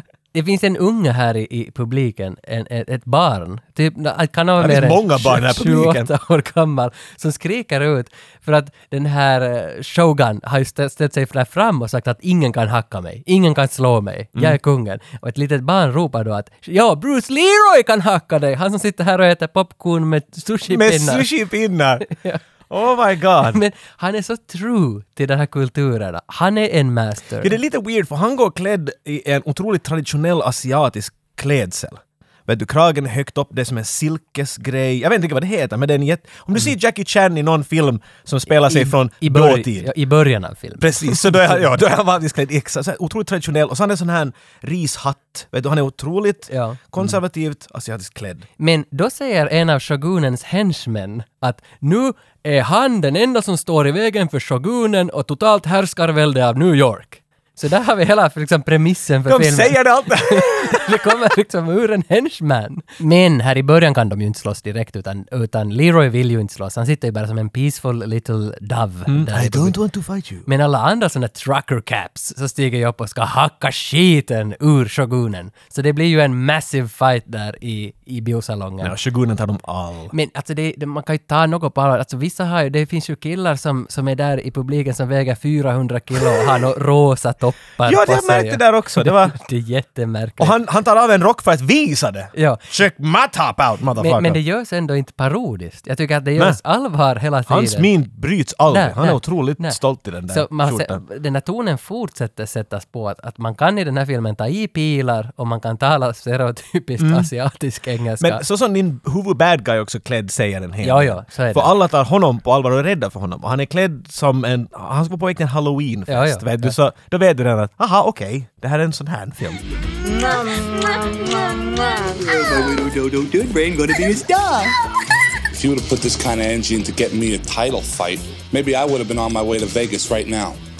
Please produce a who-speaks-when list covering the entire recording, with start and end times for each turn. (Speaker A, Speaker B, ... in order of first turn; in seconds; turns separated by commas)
Speaker A: 0.3-21.3, Speaker B: 4.6-6.1, Speaker B: 20.7-22.1, Speaker A: 22.1-22.4, Speaker B: 22.7-23.6, Speaker A: 23.4-27.6, Speaker B: 27.4-39.9, Speaker A: 38.6-41.6, Speaker B: 40.8-48.5, Speaker A: 46.5-47.2, Speaker A: 48.6-69.8, Speaker B: 59.2-61.2, Speaker B: 69.1-70.5, Speaker A: 70.5-78.9, Speaker B: 78.8-80.1, Speaker A: 80.1-90.6, Speaker B: 87.8-89.3, Speaker B: 90.4-94.4, Speaker A: 92.3-92.6, Speaker A: 94.0-97.9, Speaker B: 97.5-101.0, Speaker A: 98.7-108.4, Speaker B: 107.0-107.3, Speaker B: 108.2-119.6, Speaker A: 110.8-111.7, Speaker A: 116.1-116.8, Speaker C: 125.5-130.6